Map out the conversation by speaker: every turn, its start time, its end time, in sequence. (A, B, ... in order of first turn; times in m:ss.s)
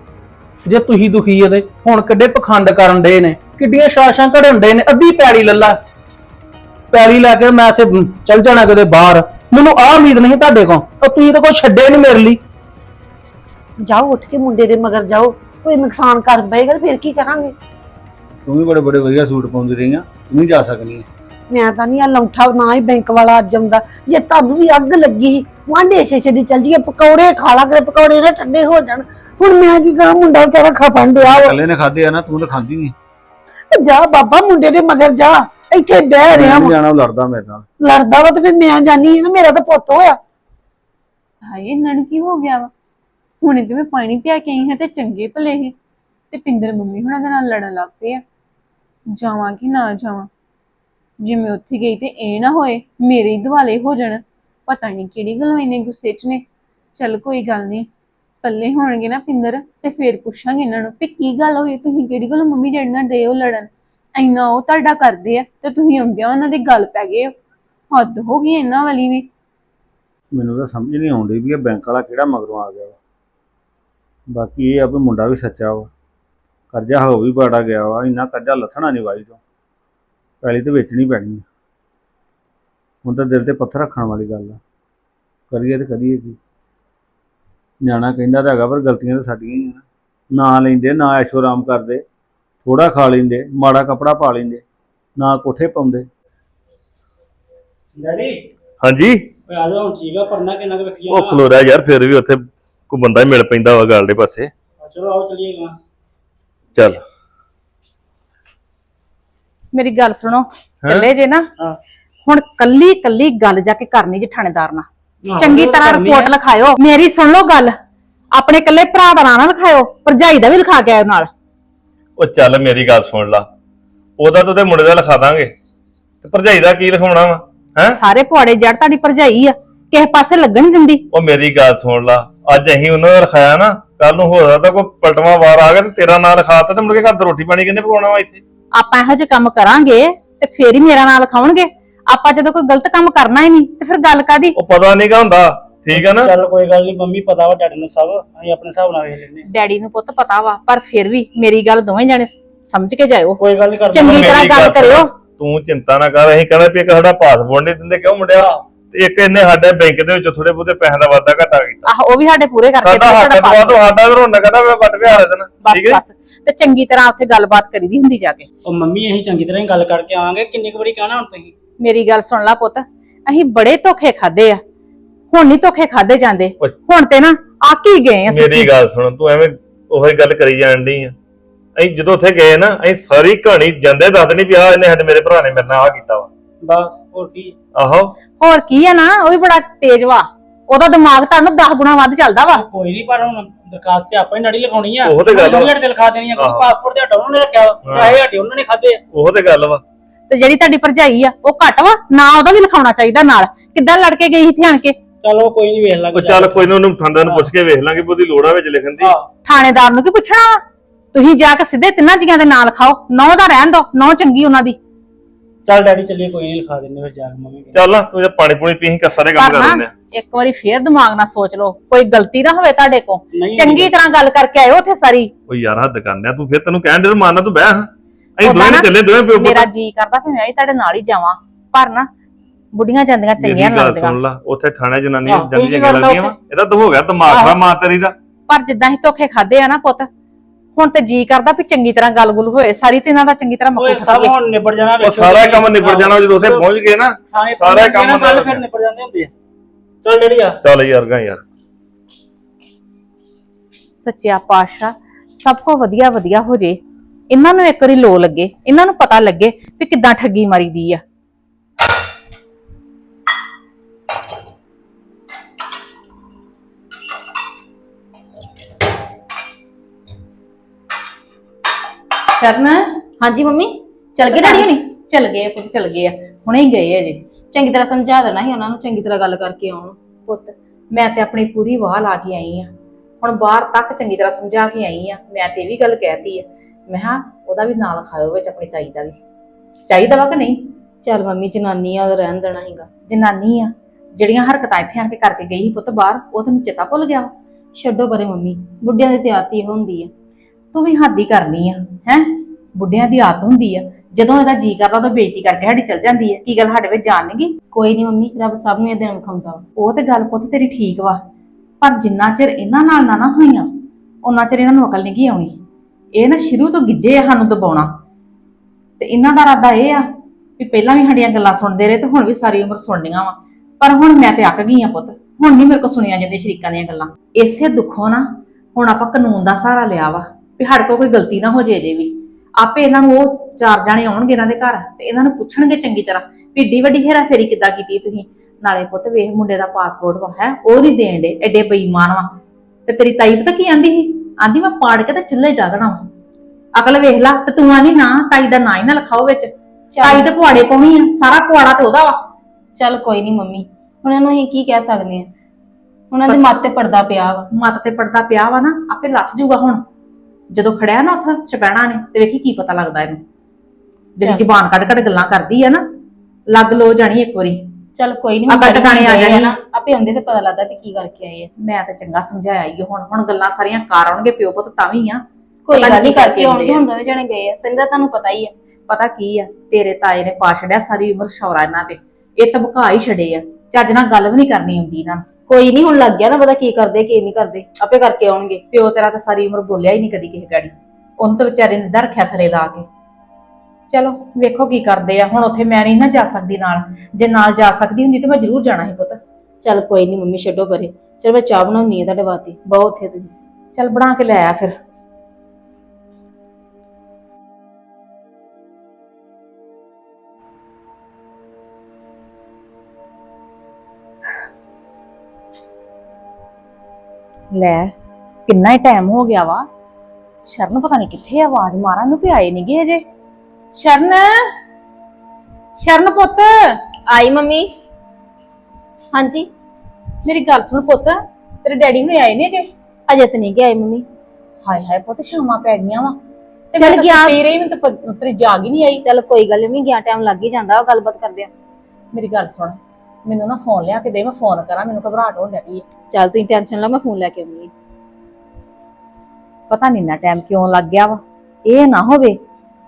0:00.6-0:05.8 A
0:06.9-0:12.4 A
0:13.8-0:17.5 B
0:18.4-0:21.0 C
0:21.5-0:31.5 B
0:31.2-0:32.9 C
0:33.7-0:36.7 B
0:36.3-0:37.6 C
0:37.8-0:40.2 B
0:41.4-0:42.7 D
0:43.4-0:45.7 D
0:46.3-0:48.2 D
0:49.1-0:50.3 D
0:51.2-0:56.4 D
0:56.9-0:57.9 D
0:58.4-1:07.3 D
1:07.9-1:09.3 D
1:10.3-1:13.0 C
1:14.3-1:15.9 C
1:16.7-1:19.4 C
1:20.4-1:21.4 C
1:23.0-1:24.6 C
1:25.5-1:26.4 C
1:27.8-1:29.8 C
1:30.3-1:32.0 C
1:32.6-1:34.6 C
1:35.2-1:36.1 C
1:38.0-1:38.5 E
1:38.8-1:39.2 F
1:39.5-1:41.4 E
1:41.1-1:44.5 F
1:44.8-1:45.8 E
1:46.8-1:47.0 F
1:49.7-1:51.4 G
1:50.8-1:51.1 F
1:52.2-1:57.7 G
1:55.2-1:56.3 E
1:58.3-2:01.3 G
2:02.2-2:03.4 F
2:04.2-2:05.5 F
2:06.2-2:08.0 F
2:08.0-2:11.0 G
2:11.1-2:18.4 F
2:18.7-2:24.5 G
2:24.5-2:26.3 F
2:25.9-2:29.4 E
2:29.5-2:35.1 G
2:33.4-2:34.6 E
2:34.0-2:41.9 F
2:41.8-2:43.8 G
2:42.8-2:46.0 F
2:45.6-2:48.5 G
2:48.6-2:51.5 E
2:51.8-2:54.6 G
2:55.3-2:58.7 G
2:58.3-3:01.1 F
3:01.8-3:06.3 F
3:06.6-3:07.5 E
3:07.7-3:08.1 F
3:08.4-3:12.6 G
3:12.5-3:19.0 E
3:15.0-3:15.7 F
3:16.4-3:16.7 F
3:17.8-3:18.2 F
3:19.1-3:19.8 F
3:20.3-3:25.0 G
3:25.2-3:27.5 E
3:26.1-3:29.1 F
3:29.0-3:29.3 E
3:29.4-3:30.6 G
3:31.1-3:34.8 G
3:35.6-3:37.8 E
3:37.7-3:39.9 F
3:39.4-3:45.3 G
3:43.3-3:43.9 E
3:45.5-3:49.7 F
3:48.4-3:52.1 G
3:52.7-3:54.2 G
3:53.4-3:58.1 F
3:55.2-3:56.4 E
3:57.3-3:57.6 E
3:58.5-4:00.1 G
4:00.8-4:04.4 G
4:03.8-4:06.7 E
4:05.0-4:08.6 F
4:07.3-4:09.3 E
4:10.0-4:10.6 E
4:10.6-4:11.4 F
4:14.0-4:16.8 G
4:17.3-4:21.0 G
4:32.3-4:32.8 G
4:33.2-4:34.7 H
4:34.3-4:37.2 G
4:37.5-4:40.0 H
4:40.2-4:42.7 G
4:43.2-4:49.2 G
4:49.9-4:50.6 G
4:51.0-4:52.9 H
4:53.0-4:57.3 G
4:57.7-5:00.1 H
5:00.7-5:07.5 G
5:07.7-5:09.6 H
5:09.8-5:11.2 G
5:11.8-5:13.7 G
5:14.2-5:15.6 G
5:16.1-5:17.9 G
5:19.0-5:20.0 G
5:20.6-5:42.3 G
5:42.9-5:46.0 G
5:46.8-5:49.5 G
5:49.9-5:50.3 H
5:50.0-5:52.2 G
5:52.8-5:55.3 H
5:56.1-5:57.5 H
5:56.2-5:56.5 G
5:57.5-5:59.8 G
6:00.5-6:03.2 G
6:04.2-6:05.8 G
6:06.5-6:07.6 G
6:08.0-6:11.5 H
6:08.5-6:09.5 G
6:11.6-6:16.8 G
6:15.6-6:18.5 H
6:18.9-6:25.2 G
6:25.5-6:28.6 H
6:28.7-6:32.8 G
6:33.9-6:39.2 G
6:39.6-6:43.3 H
6:43.7-6:44.7 G
6:57.5-6:57.9 G
6:58.5-6:59.6 G
7:00.5-7:03.0 G
7:03.7-7:04.5 G
7:05.8-7:06.7 G
7:07.0-7:07.7 H
7:09.1-7:09.5 H
7:10.2-7:12.7 G
7:13.1-7:14.0 H
7:14.6-7:16.2 G
7:16.7-7:19.0 G
7:16.8-7:17.4 H
7:19.0-7:21.5 H
7:22.1-7:25.8 G
7:26.1-7:27.7 H
7:29.7-7:32.4 G